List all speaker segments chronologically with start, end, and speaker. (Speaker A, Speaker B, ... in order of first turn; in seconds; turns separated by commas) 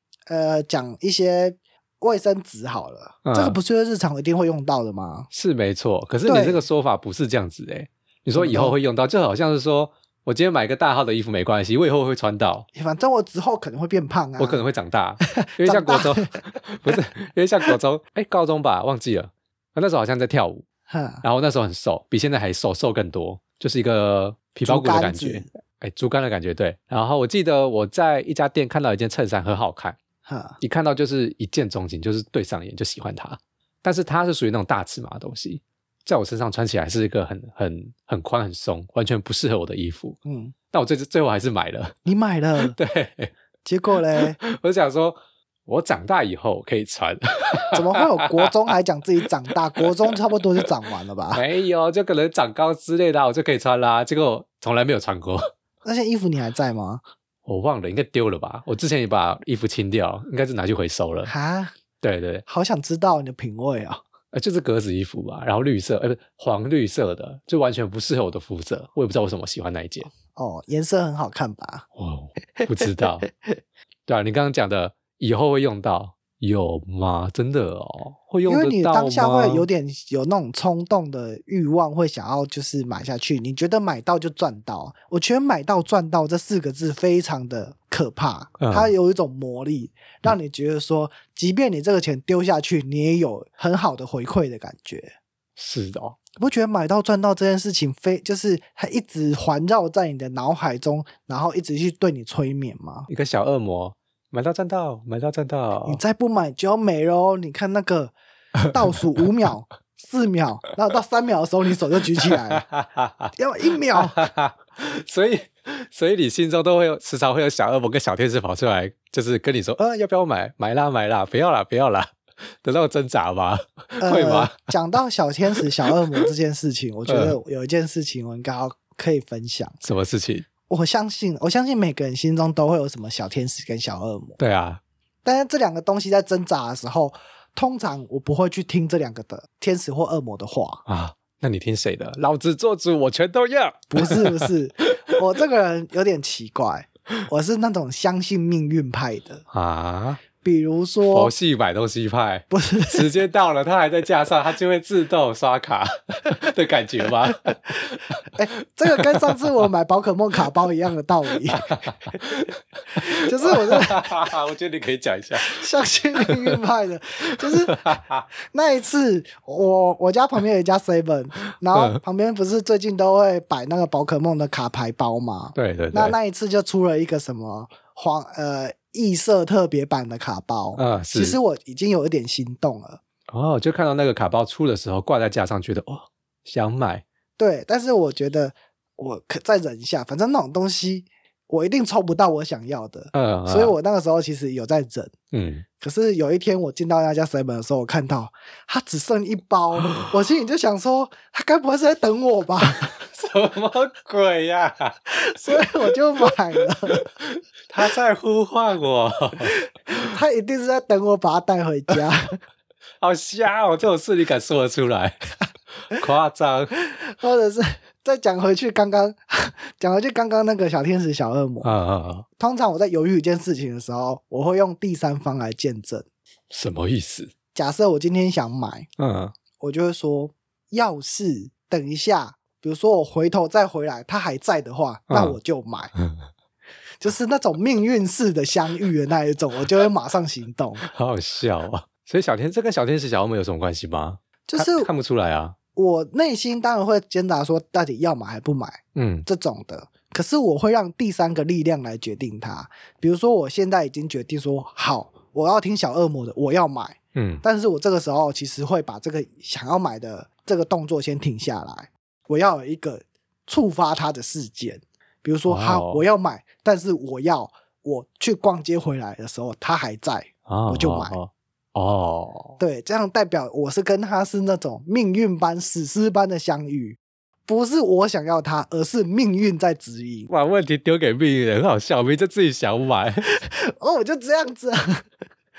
Speaker A: 0.3-5.3, Speaker B: 3.2-3.6, Speaker B: 5.3-12.7, Speaker A: 6.3-6.6, Speaker A: 8.3-8.8, Speaker A: 12.8-14.7, Speaker B: 14.4-20.6, Speaker A: 15.3-16.4, Speaker A: 20.9-21.2, Speaker B: 21.2-30.0, Speaker A: 24.7-25.5, Speaker A: 30.2-30.6, Speaker B: 30.6-40.2, Speaker A: 40.2-40.5, Speaker B: 40.7-42.0, Speaker A: 42.0-42.8, Speaker B: 42.6-43.3, Speaker A: 43.6-44.4, Speaker B: 44.4-48.5, Speaker A: 47.7-51.4, Speaker B: 51.3-55.5, Speaker A: 55.8-57.0, Speaker B: 57.5-61.3, Speaker A: 61.3-61.8, Speaker B: 62.0-62.5, Speaker A: 62.5-64.0, Speaker B: 64.3-70.1, Speaker A: 70.3-71.9, Speaker B: 72.0-73.3, Speaker B: 74.1-79.7, Speaker A: 78.5-95.1, Speaker B: 88.6-88.9, Speaker B: 95.6-96.2, Speaker A: 96.4-103.1, Speaker B: 103.1-106.0, Speaker A: 105.9-108.1, Speaker A: 108.7-112.7, Speaker B: 112.3-113.3, Speaker A: 113.4-114.3, Speaker B: 113.9-124.7, Speaker A: 124.0-129.8, Speaker B: 127.1-127.4, Speaker B: 129.8-130.5, Speaker A: 130.7-134.4, Speaker B: 134.4-134.8, Speaker A: 135.2-140.8, Speaker B: 140.9-144.5, Speaker A: 143.9-149.4, Speaker B: 149.5-150.2, Speaker A: 150.4-151.3, Speaker B: 151.1-158.2, Speaker A: 152.5-153.1, Speaker A: 158.3-161.7, Speaker B: 161.5-165.6, Speaker A: 163.0-164.3, Speaker A: 165.4-183.0, Speaker B: 166.2-166.6, Speaker B: 167.4-168.2, Speaker B: 175.6-176.2, Speaker B: 180.8-181.4, Speaker B: 183.3-187.0, Speaker A: 187.4-195.1, Speaker B: 193.1-193.7, Speaker B: 195.3-195.7, Speaker A: 195.8-203.0, Speaker B: 202.8-205.0, Speaker A: 205.1-207.1, Speaker B: 206.9-210.1, Speaker A: 209.9-212.4, Speaker B: 213.0-215.2, Speaker B: 215.9-216.7, Speaker A: 216.9-221.7, Speaker B: 221.6-222.3, Speaker A: 222.4-226.1, Speaker B: 226.5-227.3, Speaker A: 227.5-228.9, Speaker B: 229.0-229.3, Speaker A: 229.6-235.9, Speaker B: 235.1-235.4, Speaker B: 236.0-236.2, Speaker A: 237.0-240.9, Speaker B: 240.8-245.6, Speaker A: 244.5-244.9, Speaker A: 245.8-271.2, Speaker B: 248.9-249.3, Speaker B: 257.1-257.4, Speaker B: 265.5-266.0, Speaker B: 270.5-272.6, Speaker A: 272.6-280.3, Speaker B: 280.3-283.3, Speaker A: 283.2-285.0